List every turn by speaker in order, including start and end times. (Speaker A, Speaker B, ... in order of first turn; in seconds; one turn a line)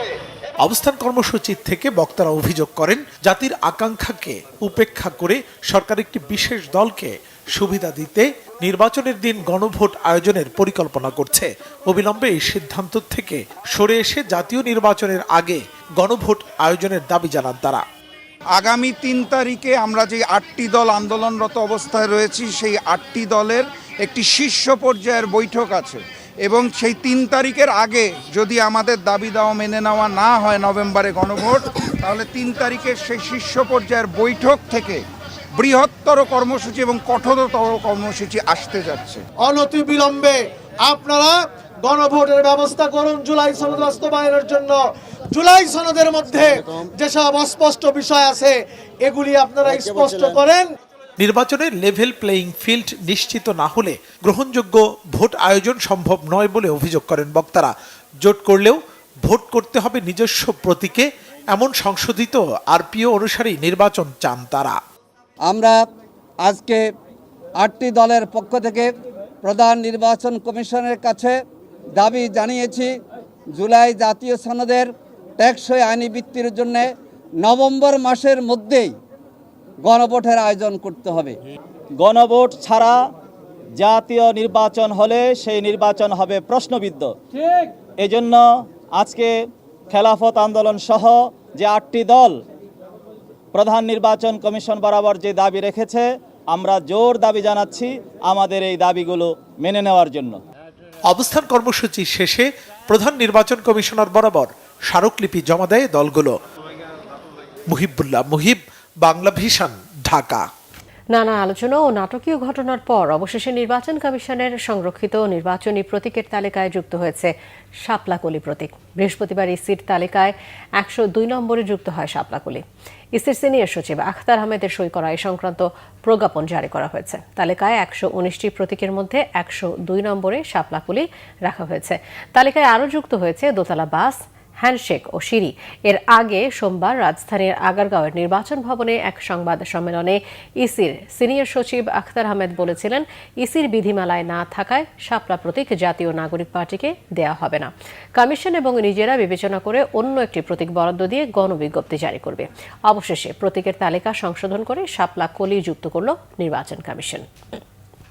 Speaker A: 0.6-17.8
Speaker B: 18.6-35.0
Speaker B: 35.6-39.2
Speaker C: 39.4-44.8
Speaker C: 45.3-50.7
Speaker A: 51.2-64.8
Speaker D: 65.5-65.8
Speaker D: 66.4-66.8
Speaker D: 67.6-68.9
Speaker D: 69.4-71.3
Speaker D: 72.0-72.9
Speaker D: 73.5-76.9
Speaker D: 77.4-78.9
Speaker D: 79.8-81.4
Speaker E: 82.0-83.1
Speaker E: 83.8-87.2
Speaker E: 88.0-92.4
Speaker E: 93.5-100.4
Speaker A: 101.1-106.3
Speaker A: 107.7-110.4
Speaker F: 111.1-157.3